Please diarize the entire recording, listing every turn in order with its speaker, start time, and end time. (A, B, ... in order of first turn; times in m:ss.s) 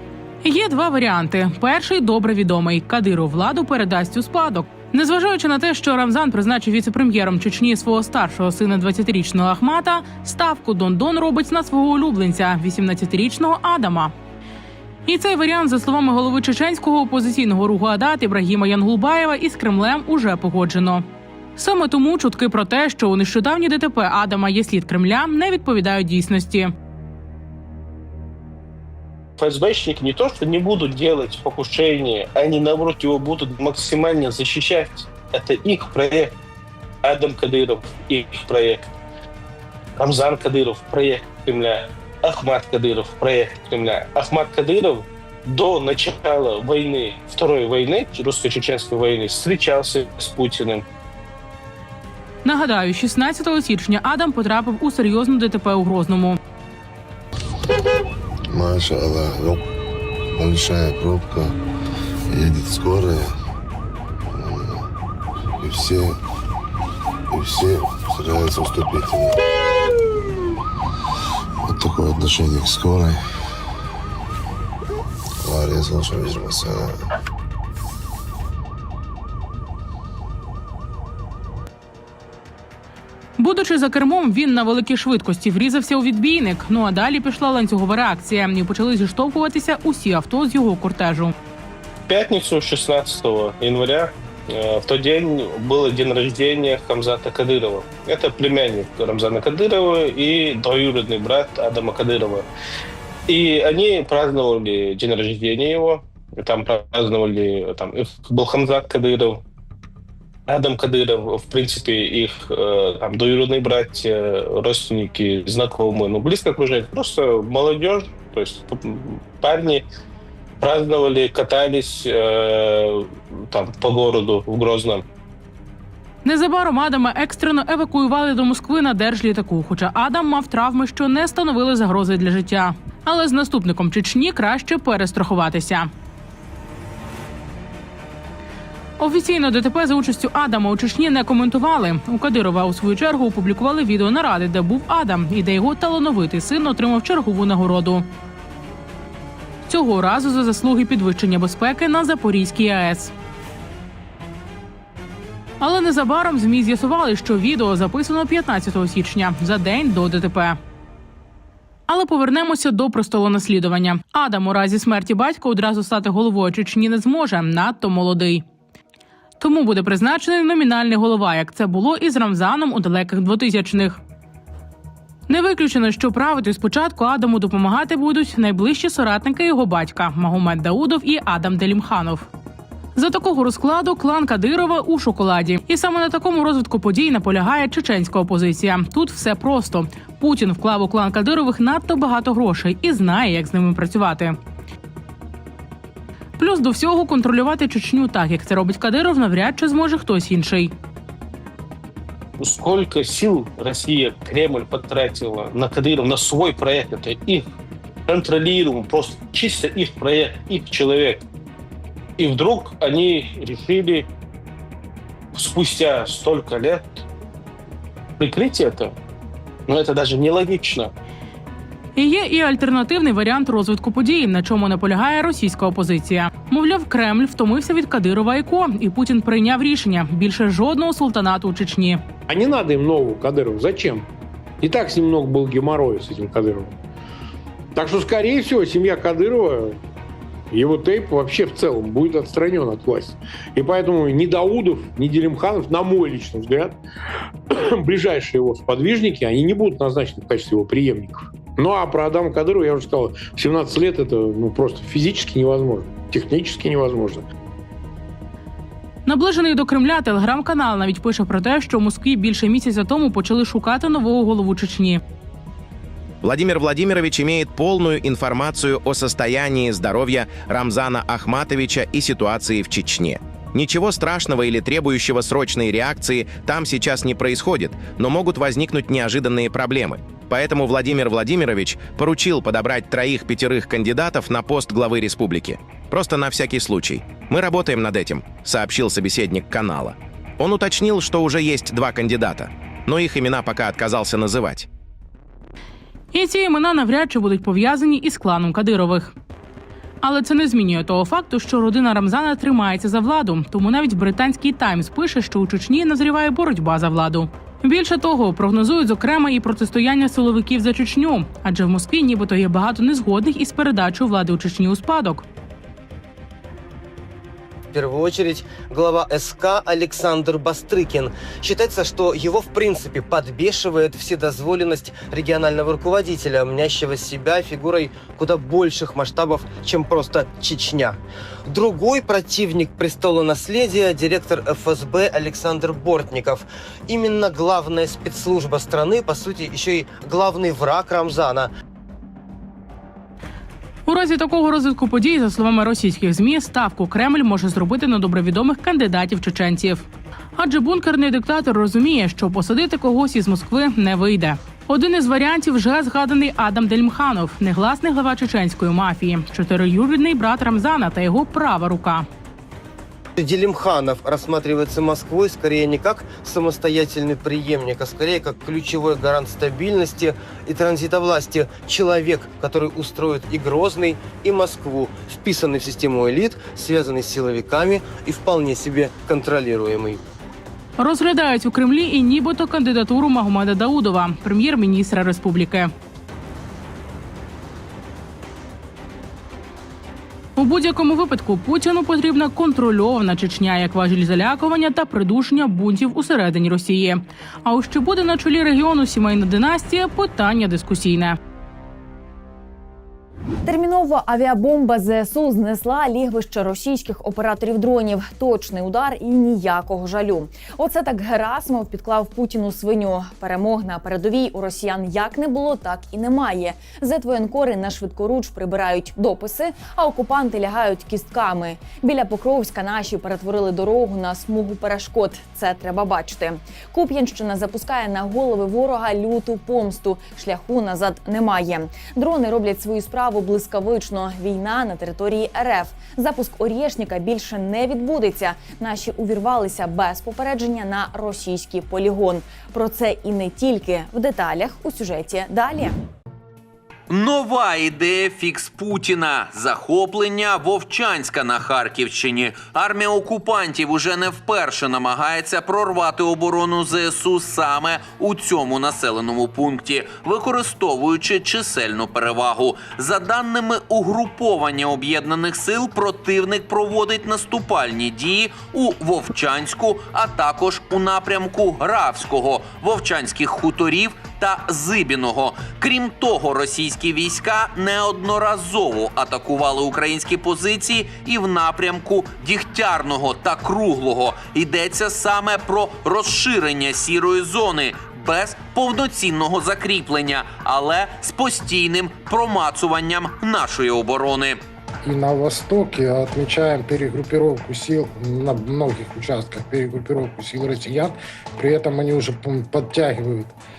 0:00.4-0:14.1 A
0:15.0-0:21.0 A
0:21.6-0:26.7 A
0:29.4-0:36.3 B
0:37.0-0:38.9 B
0:40.0-0:50.8 B
0:52.4-0:56.4 A
0:58.5-0:59.6 C
1:00.3-1:01.5 C
1:02.3-1:03.3 C
1:04.3-1:04.8 C
1:05.6-1:06.2 C
1:07.3-1:09.4 C
1:11.6-1:13.2 C
1:15.4-1:17.0 C
1:23.4-1:31.3 A
1:32.1-1:42.4 B
1:43.3-1:49.4 B
1:50.5-1:59.8 B
2:00.6-2:05.0 B
2:06.2-2:15.9 A
2:19.0-2:28.0 A
2:29.7-2:33.1 A
2:35.6-2:40.6 A
2:41.9-2:48.4 A
2:49.4-2:54.0 A
2:55.3-3:02.3 A
3:03.0-3:14.4 A
3:16.4-3:20.7 A
3:22.4-3:27.4 B
3:28.1-3:31.2 B
3:32.2-3:34.1 B
3:35.3-3:37.0 B
3:38.2-3:38.9 B
3:39.7-3:40.9 B
3:42.0-3:52.0 A
3:52.3-3:54.1 D
3:54.6-3:56.7 D
3:57.7-3:59.8 D
4:00.5-4:06.8 D
4:07.5-4:17.2 D
4:19.0-4:25.0 A
4:26.2-4:54.7 E
4:56.1-4:59.1 A
5:00.0-5:15.2 A
5:17.7-5:41.5 F
5:43.9-6:02.0 A
6:03.2-6:20.0 F
6:20.8-6:25.7 A
6:30.4-6:41.2 A
6:43.4-7:25.7 G
7:26.9-8:14.4 H
8:14.8-8:23.4 I